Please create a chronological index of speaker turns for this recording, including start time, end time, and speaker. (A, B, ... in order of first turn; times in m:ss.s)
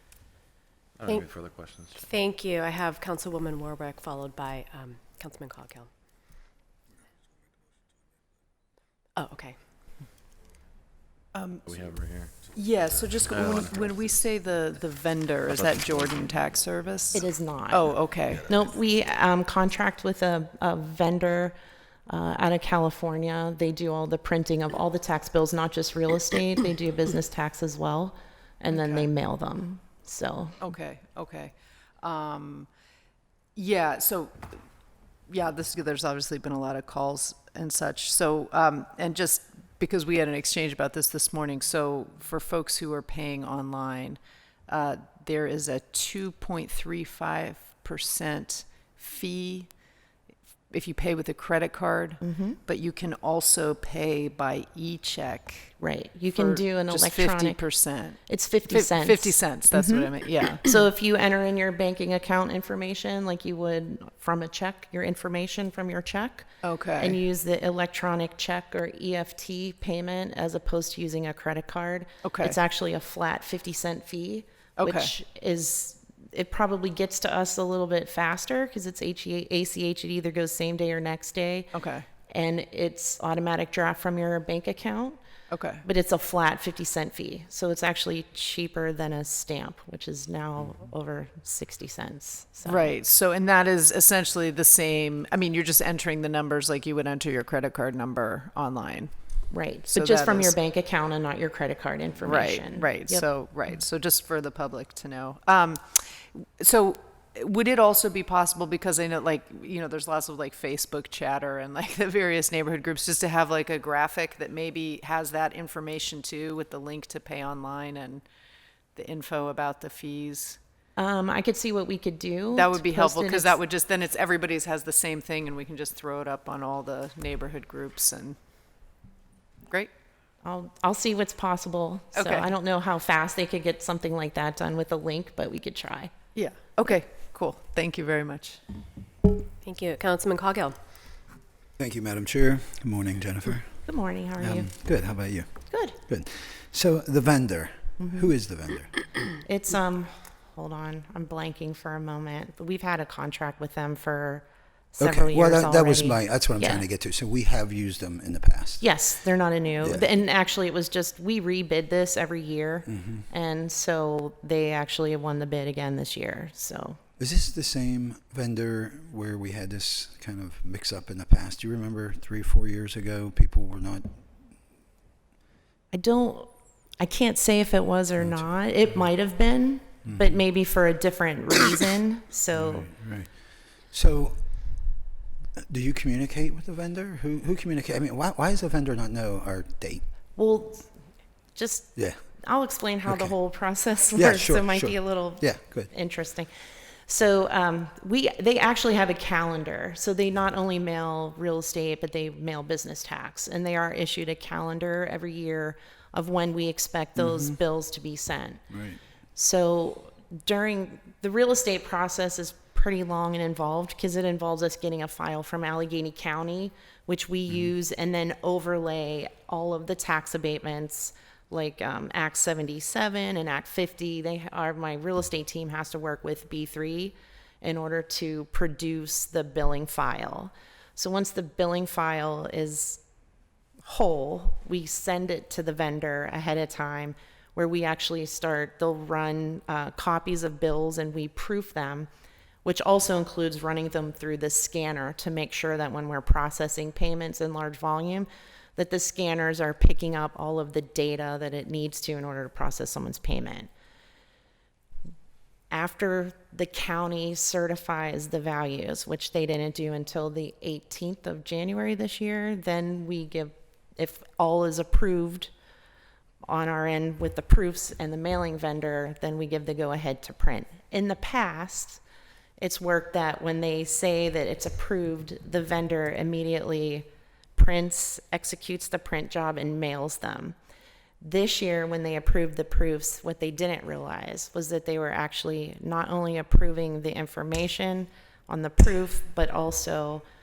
0:01.0-0:02.0 A
0:01.0-0:05.9 B
0:09.2-0:09.6 B
0:11.3-0:11.8 C
0:11.6-0:14.2 A
0:12.5-0:18.5 C
0:15.5-0:16.3 A
0:17.1-0:21.6 D
0:22.1-0:30.6 D
0:28.7-0:29.1 C
0:30.6-0:32.7 C
0:33.6-0:34.6 C
0:35.3-0:49.7 C
0:50.7-1:00.7 C
0:52.2-0:52.6 D
0:55.8-0:57.6 D
0:58.3-1:06.5 D
1:06.6-1:07.2 C
1:07.0-1:21.7 D
1:12.2-1:12.6 C
1:14.8-1:15.1 C
1:21.7-1:22.1 C
1:22.3-1:25.2 D
1:25.5-1:25.8 C
1:25.8-1:32.9 D
1:32.6-1:39.1 C
1:39.5-1:43.3 D
1:39.9-1:40.6 C
1:42.2-1:58.2 C
1:59.0-2:00.6 C
2:01.0-2:03.6 D
2:02.5-2:08.4 C
2:10.4-2:16.1 D
2:12.1-2:12.5 C
2:16.3-2:18.6 C
2:19.6-2:20.8 B
2:21.8-2:29.0 E
2:23.8-2:24.7 D
2:25.7-2:26.0 D
2:28.0-2:28.3 D
2:29.4-2:34.4 D
2:35.0-2:36.8 D
2:35.0-2:39.0 E
2:38.8-2:47.0 D
2:39.8-2:40.1 E
2:42.9-2:43.2 E
2:47.2-2:54.2 E
2:55.9-3:02.9 D
3:00.0-3:00.4 E
3:02.5-3:04.8 E
3:05.6-3:10.0 E
3:10.4-3:10.9 D
3:11.5-3:16.5 D
3:12.8-3:15.9 E
3:17.0-3:28.7 D
3:27.2-3:27.6 E
3:28.7-3:29.0 E
3:29.3-3:53.0 D
3:53.8-4:02.1 D
4:02.6-4:13.7 D
4:15.7-4:25.5 D
4:26.4-4:32.0 D
4:32.6-4:40.6 D
4:41.2-4:50.2 D